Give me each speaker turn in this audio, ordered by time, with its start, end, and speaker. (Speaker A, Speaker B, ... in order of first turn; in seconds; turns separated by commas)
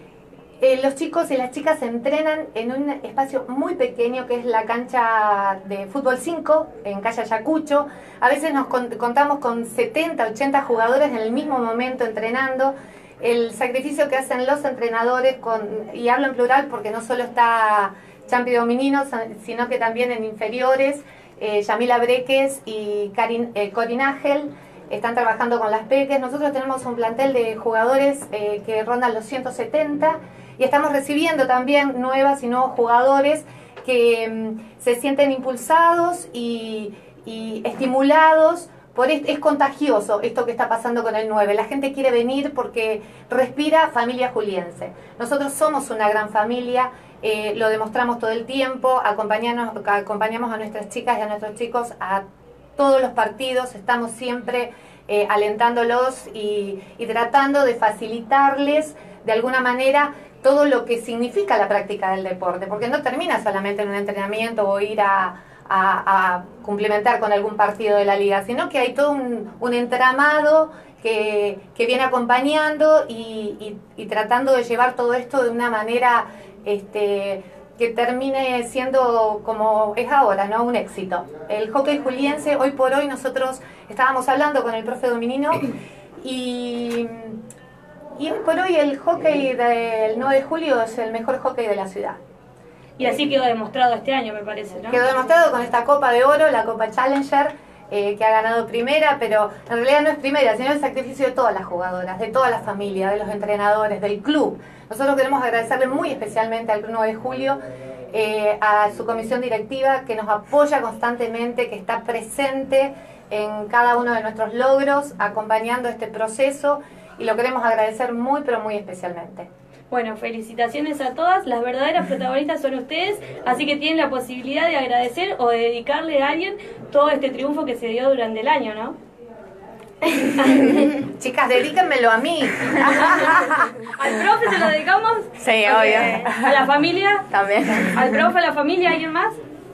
Speaker A: 0.6-52.2, Speaker A: 52.8-87.4, Speaker A: 88.2-92.2, Speaker B: 93.0-95.0, Speaker A: 94.9-107.6, Speaker A: 108.1-119.5, Speaker B: 119.9-128.9, Speaker B: 130.2-130.9, Speaker A: 131.1-133.3, Speaker B: 132.8-137.3, Speaker C: 135.4-136.5, Speaker C: 137.3-138.1, Speaker B: 137.9-139.4